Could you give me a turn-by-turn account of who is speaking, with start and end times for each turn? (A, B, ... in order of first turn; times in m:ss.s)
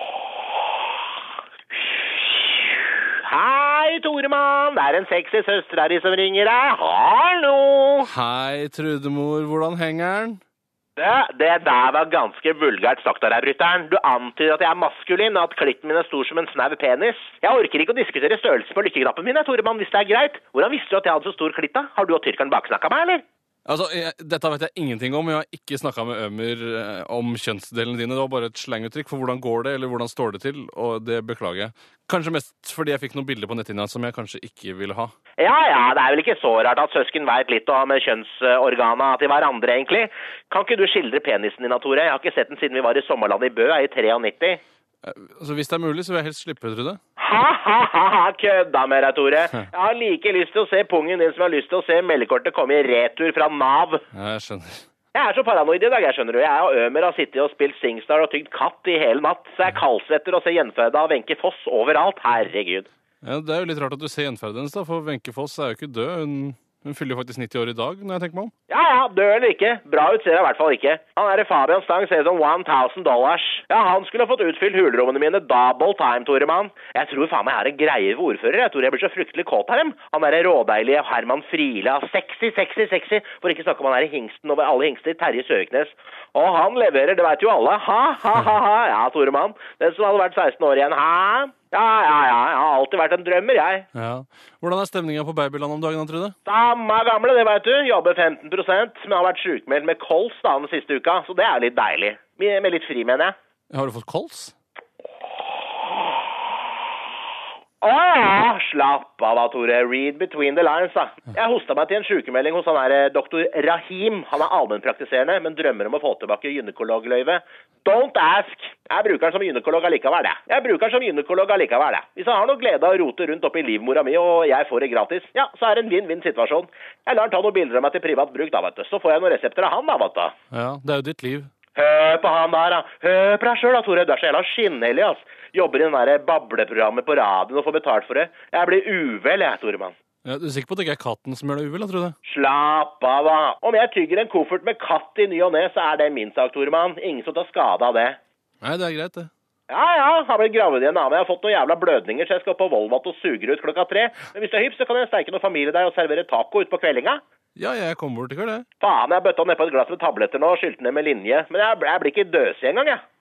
0:02.1-0:08.1 A
0:08.0-0:10.4 B
0:11.0-0:23.2 A
0:23.6-0:35.1 B
0:35.4-0:44.6 A
0:45.0-0:47.0 B
0:47.2-0:54.0 A
0:54.1-0:54.8 B
0:55.1-1:02.9 A
1:03.2-1:08.5 B
1:08.7-1:33.9 A
1:33.9-1:36.4 B
1:36.4-1:43.3 A
1:43.7-1:44.5 B
1:47.8-2:10.3 A
2:10.5-2:11.5 B
2:11.8-2:19.9 A
2:20.2-2:22.1 B
2:22.2-2:28.2 A
2:28.6-2:29.3 B
2:29.7-2:37.2 A
2:37.6-2:38.6 B
2:38.8-2:43.0 A